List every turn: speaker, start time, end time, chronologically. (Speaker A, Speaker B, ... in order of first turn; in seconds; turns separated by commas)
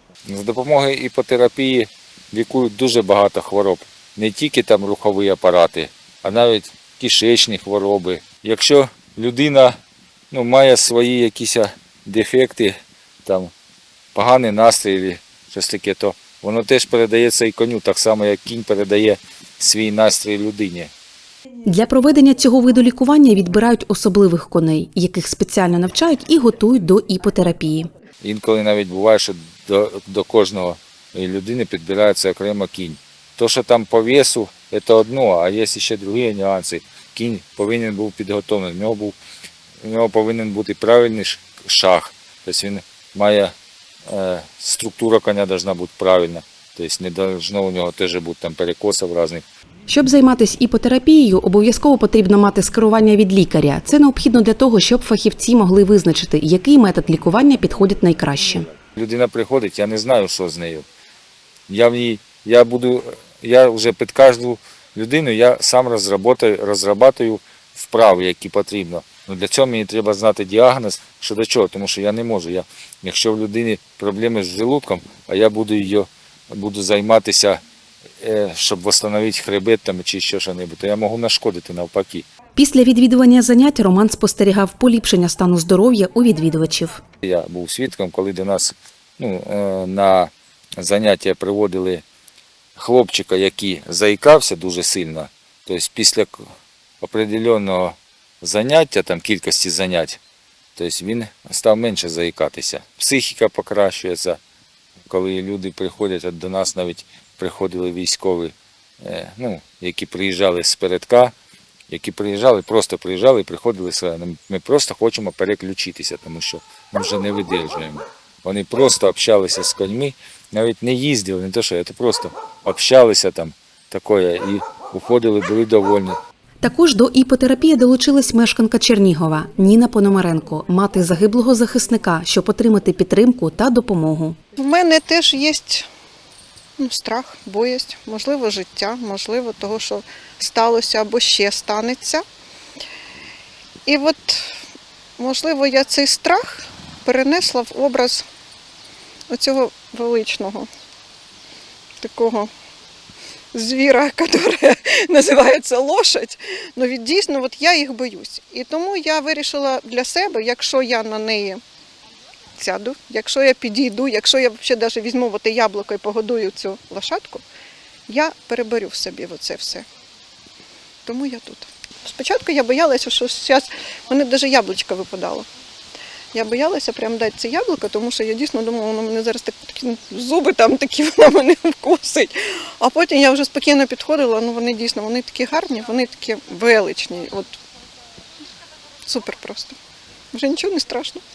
Speaker A: 0.2-9.8, Speaker A: 10.3-13.5, Speaker A: 14.1-20.9, Speaker B: 21.7-27.9, Speaker A: 28.2-39.2, Speaker A: 39.8-43.5, Speaker A: 44.1-49.4, Speaker B: 49.9-58.7, Speaker A: 59.0-60.9, Speaker A: 61.7-77.6, Speaker A: 78.2-82.2, Speaker B: 82.5-87.0, Speaker A: 87.2-92.0, Speaker A: 92.8-96.5, Speaker A: 97.0-100.2, Speaker A: 100.8-104.4, Speaker A: 105.1-111.3, Speaker A: 111.9-126.2, Speaker B: 126.6-134.4, Speaker C: 134.6-135.9, Speaker C: 136.8-142.2, Speaker C: 143.8-144.6, Speaker C: 145.2-148.2, Speaker C: 149.3-150.7, Speaker C: 152.0-152.5, Speaker C: 153.5-161.6, Speaker C: 162.6-167.4, Speaker C: 168.1-169.8, Speaker C: 171.1-175.5, Speaker C: 176.3-187.6, Speaker C: 189.1-189.8, Speaker C: 190.3-191.2